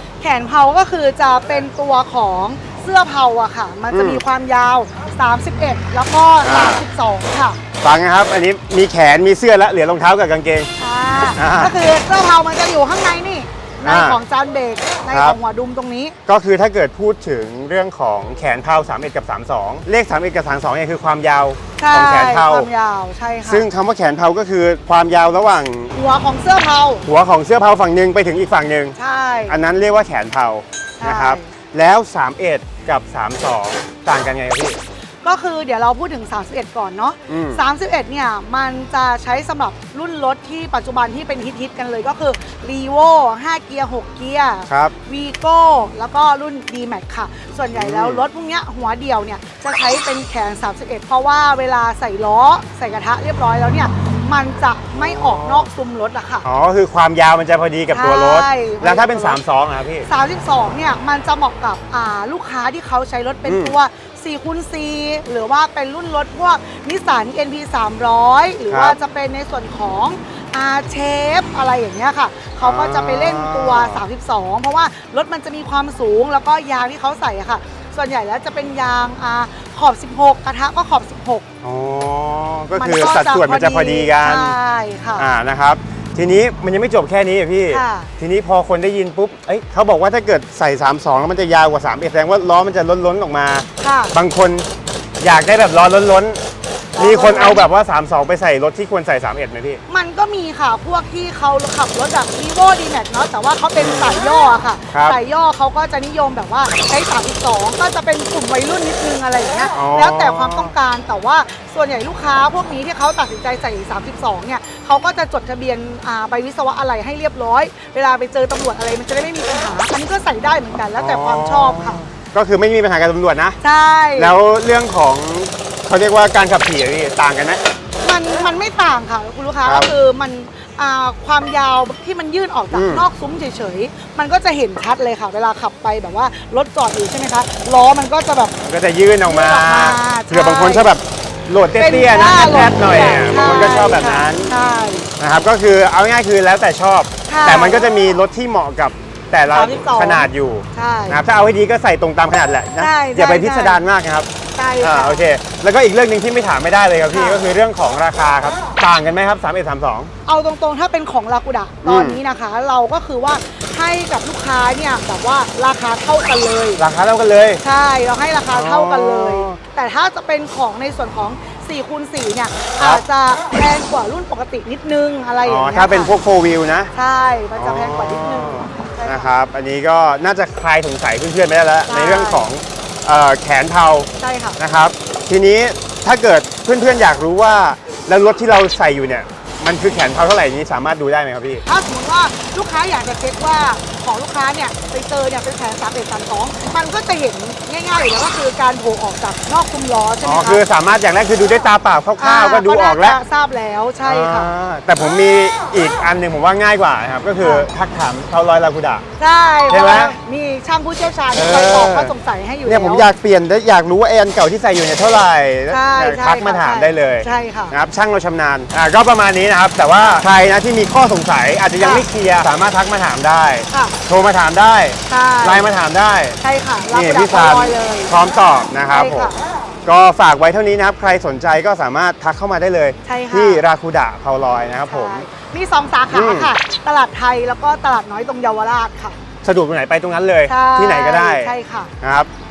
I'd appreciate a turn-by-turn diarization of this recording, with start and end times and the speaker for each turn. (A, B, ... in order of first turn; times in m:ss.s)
0:00.2-0:07.6 A
0:03.9-0:04.2 B
0:06.4-0:06.8 B
0:07.8-0:10.7 B
0:10.8-0:16.2 A
0:11.4-0:11.7 B
0:13.8-0:14.2 B
0:15.1-0:15.4 B
0:16.3-0:22.7 B
0:21.8-0:23.7 A
0:23.5-0:25.9 B
0:25.9-0:27.0 A
0:27.0-0:29.0 B
0:29.0-0:29.6 A
0:29.5-0:34.8 B
0:31.0-0:31.5 A
0:35.2-0:56.5 A
0:37.3-0:37.6 B
0:44.7-0:44.9 B
0:47.7-0:48.2 B
0:54.9-0:55.7 B
0:56.4-1:00.1 B
0:57.9-0:59.4 A
1:00.1-1:21.4 A
1:03.5-1:03.8 B
1:08.7-1:09.0 B
1:12.6-1:14.0 B
1:21.6-1:24.6 B
1:22.8-1:25.3 A
1:25.2-1:34.7 B
1:27.7-1:28.1 A
1:33.8-1:34.2 A
1:35.2-1:36.4 B
1:37.0-1:37.7 A
1:37.0-1:39.8 B
1:39.9-2:02.0 A
1:43.8-1:44.2 B
1:44.9-1:45.2 B
1:49.7-1:50.7 B
2:01.0-2:03.6 B
2:03.6-2:04.4 A
2:04.2-2:07.6 B
2:08.0-2:18.5 A
2:09.6-2:09.9 B
2:12.7-2:13.0 B
2:18.6-2:24.5 B
2:19.2-2:20.9 A
2:21.8-2:25.1 A
2:25.2-2:34.3 B
2:27.3-2:28.0 A
2:29.5-2:31.2 A
2:32.8-2:33.9 A
2:34.6-2:35.2 A
2:34.8-2:40.1 B
2:37.1-2:37.4 A
2:40.3-2:46.8 A
2:41.8-2:42.2 B
2:46.8-2:47.6 B
2:47.6-2:56.1 A
2:48.5-2:49.6 B
2:55.4-2:56.9 B
2:56.9-2:59.3 A
2:57.6-3:11.6 B
3:01.9-3:02.5 A
3:04.2-3:04.6 A
3:11.7-3:20.6 A
3:20.2-3:23.2 B
3:22.2-3:24.5 A
3:24.0-3:29.0 B
3:27.4-3:27.7 A
3:29.2-3:33.1 A
3:29.7-3:30.2 B
3:31.3-3:32.1 B
3:32.7-3:46.4 B
3:35.7-3:37.8 A
3:41.8-3:42.0 A
3:43.7-3:44.0 A
3:45.1-3:45.7 A
3:46.4-3:48.1 A
3:46.9-3:49.3 B
3:48.9-3:49.4 A
3:49.9-3:55.3 B
3:53.1-3:53.6 A
3:54.9-3:59.2 A
3:56.1-3:56.5 B
3:59.4-4:02.3 B
4:00.5-4:01.9 A